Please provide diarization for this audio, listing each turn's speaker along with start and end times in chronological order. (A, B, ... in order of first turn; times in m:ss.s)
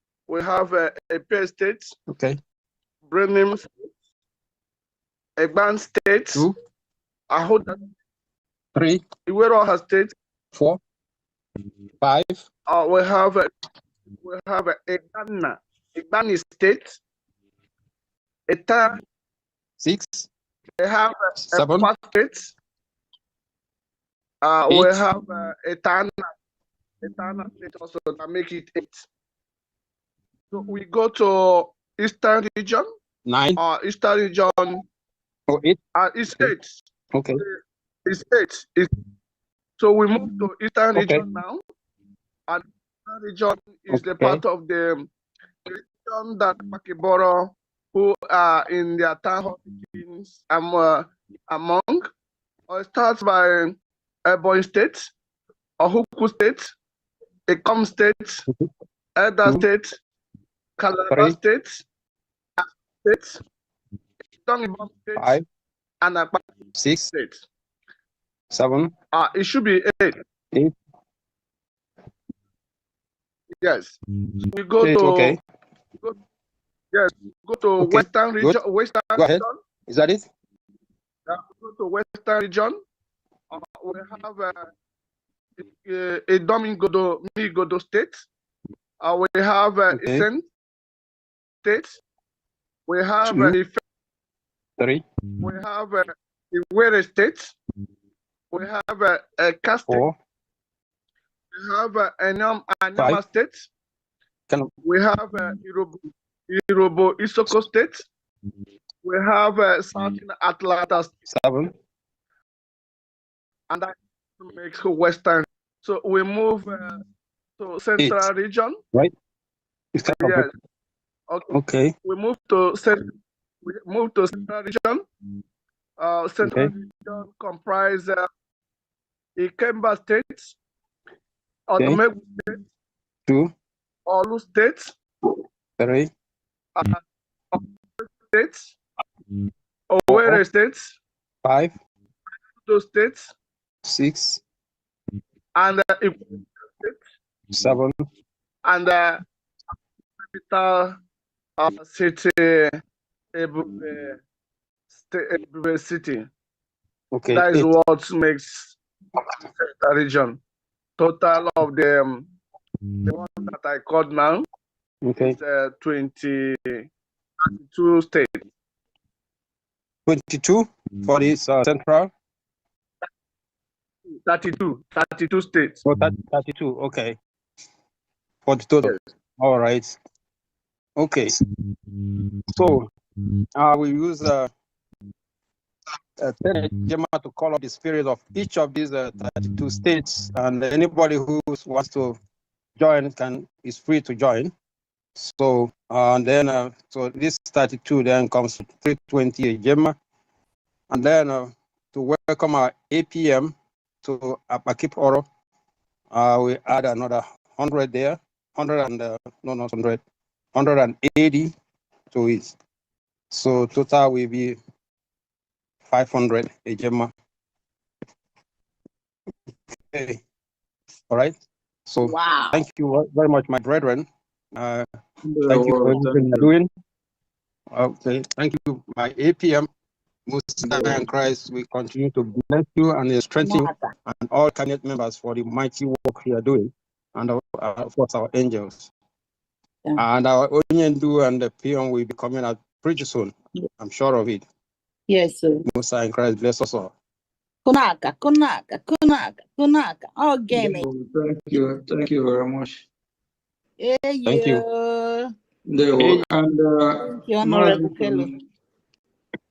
0:00.3-0:01.9 A
0:02.1-0:02.4 B
0:03.1-0:03.7 A
0:05.4-0:06.4 A
0:07.3-0:07.8 A
0:08.8-0:09.0 B
0:09.3-0:10.2 A
0:10.5-0:10.8 B
0:12.0-0:12.4 B
0:12.7-0:13.5 A
0:14.2-0:17.0 A
0:18.5-0:19.0 A
0:19.8-0:20.3 B
0:20.8-0:22.5 A
0:21.4-0:21.9 B
0:24.4-0:26.3 A
0:24.7-0:25.0 B
0:27.0-0:29.1 A
0:30.5-0:32.9 A
0:33.3-0:33.6 B
0:33.6-0:34.8 A
0:35.5-0:35.8 B
0:36.0-0:36.8 A
0:37.1-0:37.4 B
0:38.1-0:38.9 A
0:39.8-0:41.6 A
0:41.0-0:41.2 B
0:42.5-0:45.1 A
0:43.9-0:44.4 B
0:45.7-0:52.1 A
0:52.7-0:55.1 A
0:55.8-0:56.7 A
0:57.5-0:58.4 A
0:59.2-1:00.0 A
1:00.8-1:01.8 A
1:01.1-1:01.4 B
1:02.6-1:03.4 A
1:04.4-1:05.4 A
1:05.2-1:05.4 B
1:06.0-1:06.4 A
1:06.8-1:07.1 B
1:07.1-1:07.4 A
1:08.5-1:08.9 B
1:09.1-1:10.2 A
1:13.6-1:14.0 A
1:14.5-1:15.4 A
1:14.8-1:15.4 B
1:16.9-1:19.5 A
1:17.8-1:18.6 B
1:19.2-1:20.2 B
1:21.3-1:22.8 A
1:23.5-1:24.7 A
1:25.6-1:28.2 A
1:29.0-1:30.5 A
1:29.9-1:30.3 B
1:31.6-1:32.0 A
1:32.9-1:33.8 A
1:33.2-1:33.6 B
1:34.8-1:35.0 B
1:35.4-1:37.6 A
1:38.5-1:40.0 A
1:39.9-1:40.2 B
1:41.5-1:43.7 A
1:43.0-1:43.2 B
1:44.9-1:46.0 A
1:46.5-1:48.0 A
1:49.0-1:51.1 A
1:51.3-1:51.7 B
1:53.7-1:57.0 A
1:57.6-1:58.8 A
1:58.0-1:58.3 B
1:59.9-2:00.5 B
2:00.2-2:00.5 A
2:01.5-2:01.9 B
2:02.0-2:03.1 A
2:03.6-2:05.0 A
2:06.0-2:08.2 A
2:06.4-2:06.7 B
2:09.4-2:10.6 A
2:11.7-2:12.6 A
2:14.1-2:15.0 A
2:15.8-2:16.1 B
2:17.5-2:18.8 A
2:19.9-2:21.0 A
2:20.1-2:20.4 B
2:21.4-2:21.7 B
2:22.6-2:23.3 A
2:23.9-2:24.4 B
2:25.6-2:27.0 A
2:27.5-2:28.0 B
2:28.6-2:29.2 A
2:30.3-2:31.0 A
2:31.6-2:32.8 A
2:33.4-2:34.2 A
2:34.9-2:36.3 A
2:37.1-2:37.7 B
2:37.3-2:38.8 A
2:39.4-2:40.4 A
2:41.0-2:42.3 A
2:43.0-2:44.4 A
2:45.0-2:45.4 B
2:45.2-2:46.9 A
2:47.4-2:48.4 A
2:50.1-2:52.1 B
2:54.1-2:55.8 A
2:55.8-2:57.2 B
2:58.5-3:00.0 B
3:01.0-3:01.4 B
3:02.5-3:02.9 B
3:03.6-3:04.5 B
3:06.2-3:12.2 B
3:12.8-3:14.5 B
3:15.2-3:20.0 B
3:20.9-3:25.2 B
3:26.1-3:30.0 B
3:30.6-3:31.5 B
3:32.1-3:32.6 B
3:33.3-3:34.6 B
3:35.9-3:37.1 B
3:39.9-3:40.2 B
3:41.9-3:44.0 B
3:42.0-3:42.6 C
3:44.6-3:44.9 B
3:45.2-3:46.5 D
3:45.5-3:46.7 B
3:47.7-3:49.7 B
3:50.3-3:58.9 B
3:50.6-3:51.0 D
3:53.4-3:53.9 C
4:00.0-4:04.4 B
4:05.1-4:05.6 C
4:05.7-4:06.9 B
4:07.6-4:10.8 C
4:10.5-4:12.8 D
4:13.8-4:15.3 C
4:14.3-4:14.6 B
4:15.7-4:18.4 D
4:17.2-4:18.3 C